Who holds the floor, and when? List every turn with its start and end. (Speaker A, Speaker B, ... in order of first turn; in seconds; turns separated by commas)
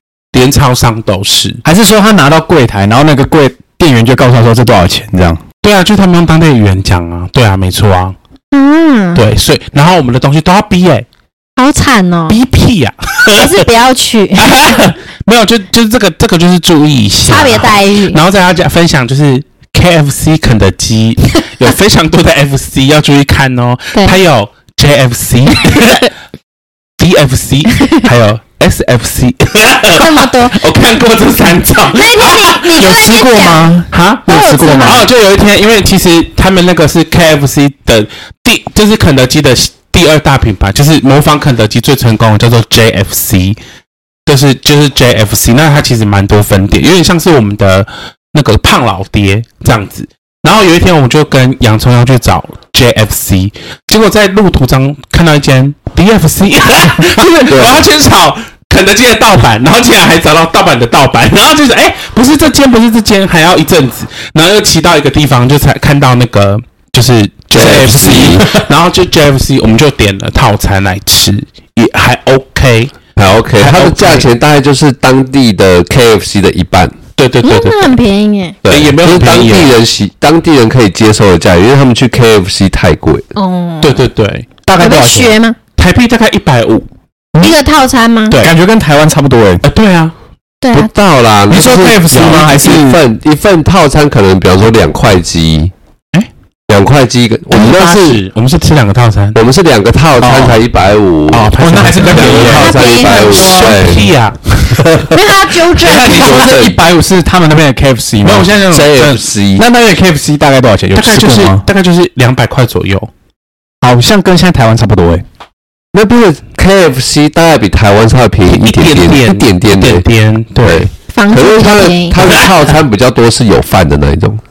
Speaker A: 0.3-1.6, Speaker B: 1.6-5.4, Speaker A: 5.6-8.2, Speaker C: 8.5-9.2, Speaker A: 9.2-11.1, Speaker C: 11.6-12.4, Speaker A: 12.3-13.7, Speaker C: 13.3-14.6, Speaker A: 14.4-26.1, Speaker C: 17.3-18.2, Speaker A: 27.0-32.9, Speaker C: 29.9-30.6, Speaker C: 31.9-33.8, Speaker B: 32.8-35.1, Speaker A: 33.9-43.6, Speaker C: 34.3-35.1, Speaker A: 44.3-74.3, Speaker D: 57.5-57.9, Speaker D: 67.5-68.6, Speaker D: 73.2-77.0, Speaker A: 77.2-78.0, Speaker C: 77.4-78.6, Speaker D: 78.6-83.3, Speaker A: 78.7-79.8, Speaker C: 83.4-84.0, Speaker A: 83.8-84.5, Speaker B: 84.7-85.4, Speaker C: 84.8-85.6, Speaker A: 85.8-86.9, Speaker C: 87.4-88.4, Speaker A: 88.3-88.5, Speaker B: 88.4-89.6, Speaker A: 89.6-90.1, Speaker C: 90.6-90.9, Speaker D: 90.7-95.7, Speaker B: 91.5-93.0, Speaker D: 96.7-98.2, Speaker A: 97.5-99.4, Speaker D: 99.3-104.1, Speaker B: 100.2-100.6, Speaker B: 101.3-102.8, Speaker A: 101.3-104.9, Speaker C: 102.5-103.9, Speaker D: 104.7-105.2, Speaker C: 105.1-106.4, Speaker B: 105.8-108.6, Speaker D: 105.8-106.8, Speaker A: 108.2-109.2, Speaker D: 108.7-109.6, Speaker B: 109.6-111.6, Speaker A: 110.9-113.1, Speaker B: 113.8-115.2, Speaker D: 115.9-120.0, Speaker A: 118.5-120.9, Speaker D: 120.6-124.4, Speaker C: 121.1-122.2